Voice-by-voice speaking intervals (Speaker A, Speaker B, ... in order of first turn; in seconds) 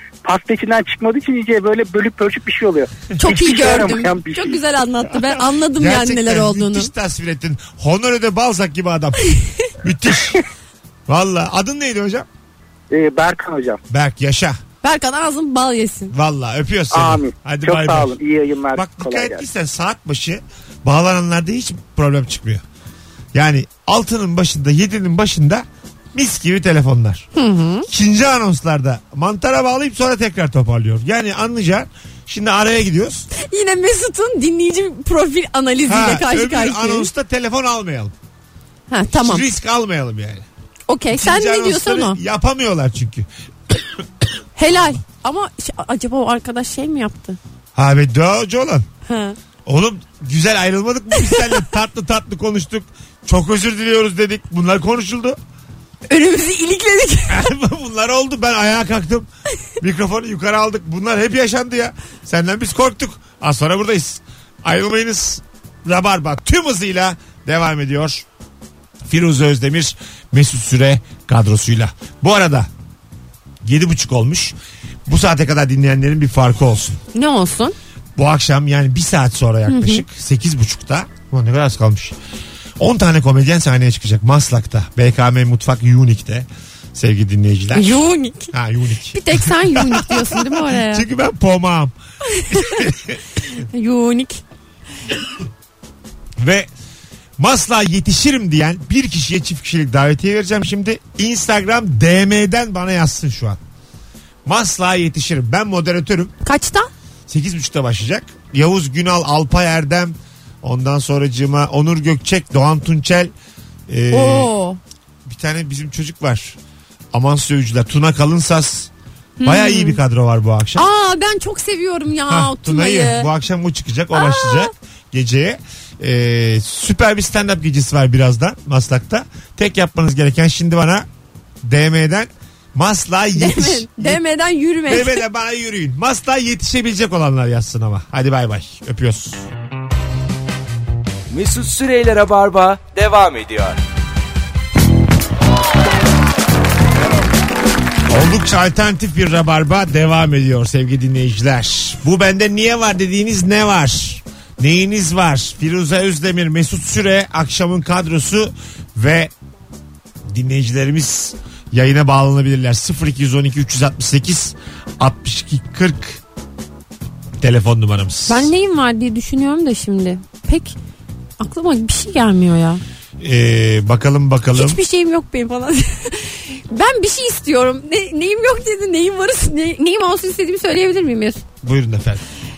Speaker A: 0.7-1.0, 2.7-4.2, 17.1-17.7, 18.5-19.4
Speaker B: 3.2-6.9, 14.8-16.1, 27.3-27.9, 33.3-37.1, 38.9-39.4, 40.9-42.2, 44.6-47.4, 49.0-49.4, 56.1-57.5, 77.1-77.8, 79.7-80.0, 87.7-88.5, 89.1-91.0, 92.3-92.9, 93.5-94.4, 106.4-106.9, 114.1-114.8, 119.4-120.0, 120.8-123.3, 124.1-124.7, 133.3-135.2, 168.3-170.8, 171.4-172.8, 174.5-181.4
Speaker C: 5.1-10.4, 11.1-12.3, 13.9-14.6, 16.1-18.2, 18.7-22.6, 23.3-27.3, 27.9-33.3, 35.9-38.1, 39.1-40.5, 41.1-44.0, 47.8-48.9, 49.6-55.4, 57.3-68.2, 69.0-72.7, 73.6-77.0, 78.2-82.2, 82.8-91.9, 92.5-93.2, 96.4-96.7, 97.4-103.6, 104.4-106.3, 107.3-113.3, 113.9-114.5, 115.2-116.6, 117.1-118.9, 119.4-120.8, 122.3-131.1, 131.6-134.2, 134.9-139.4, 148.1-159.3, 160.3-166.2, 167.4-168.5, 173.2-174.8, 181.6-182.2
Speaker D: 141.3-143.8